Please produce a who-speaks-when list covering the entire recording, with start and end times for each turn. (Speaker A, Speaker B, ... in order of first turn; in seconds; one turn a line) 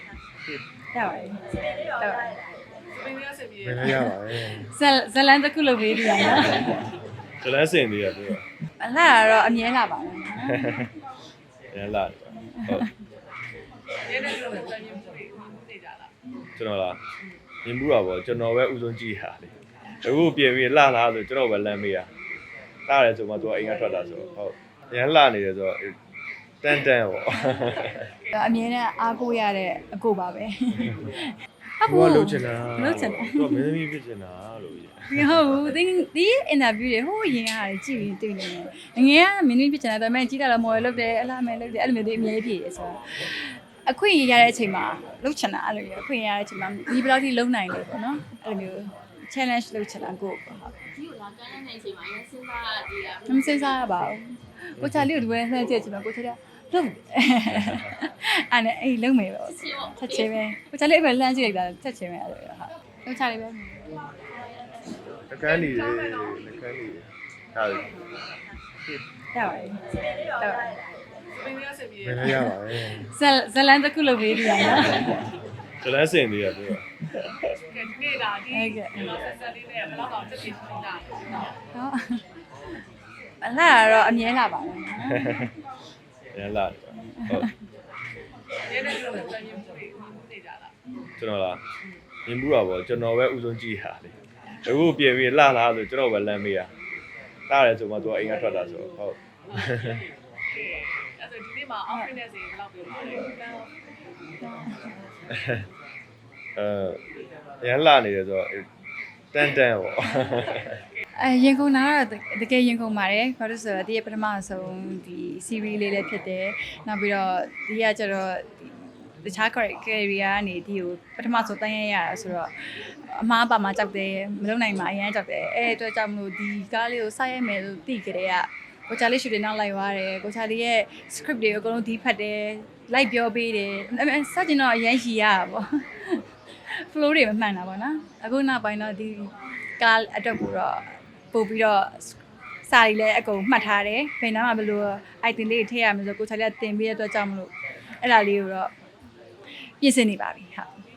Speaker A: 0.9-2.4
Speaker B: 2.9-3.8
Speaker C: 3.6-4.7
Speaker A: 3.8-6.9
Speaker C: 7.4-8.4
Speaker A: 8.8-10.9
Speaker C: 10.4-10.9
Speaker C: 11.7-12.9
Speaker A: 12.5-12.8
Speaker B: 14.0-16.1
Speaker C: 16.6-17.0
Speaker C: 17.6-22.1
Speaker C: 22.9-25.9
Speaker C: 26.6-28.1
Speaker A: 28.3-33.6
Speaker C: 31.8-35.7
Speaker A: 35.1-50.7
Speaker D: 51.0-53.2
Speaker A: 53.2-63.9
Speaker C: 54.8-55.2
Speaker C: 57.5-57.9
Speaker C: 65.3-67.9
Speaker A: 69.3-70.8
Speaker B: 71.3-72.3
Speaker C: 72.0-73.1
Speaker A: 72.2-75.3
Speaker C: 75.8-77.5
Speaker B: 77.7-81.5
Speaker A: 78.5-79.0
Speaker A: 81.7-82.2
Speaker A: 83.4-85.5
Speaker C: 85.1-85.5
Speaker C: 86.3-87.5
Speaker A: 87.2-87.5
Speaker B: 88.6-90.7
Speaker C: 91.2-91.6
Speaker C: 92.2-96.7
Speaker C: 97.5-100.0
Speaker B: 99.5-103.7
Speaker A: 104.4-104.9
Speaker C: 105.3-105.7
Speaker C: 106.5-107.0
Speaker C: 107.6-108.7
Speaker C: 109.3-110.8
Speaker A: 111.2-122.5
Speaker A: 123.0-148.7
Speaker A: 149.8-150.7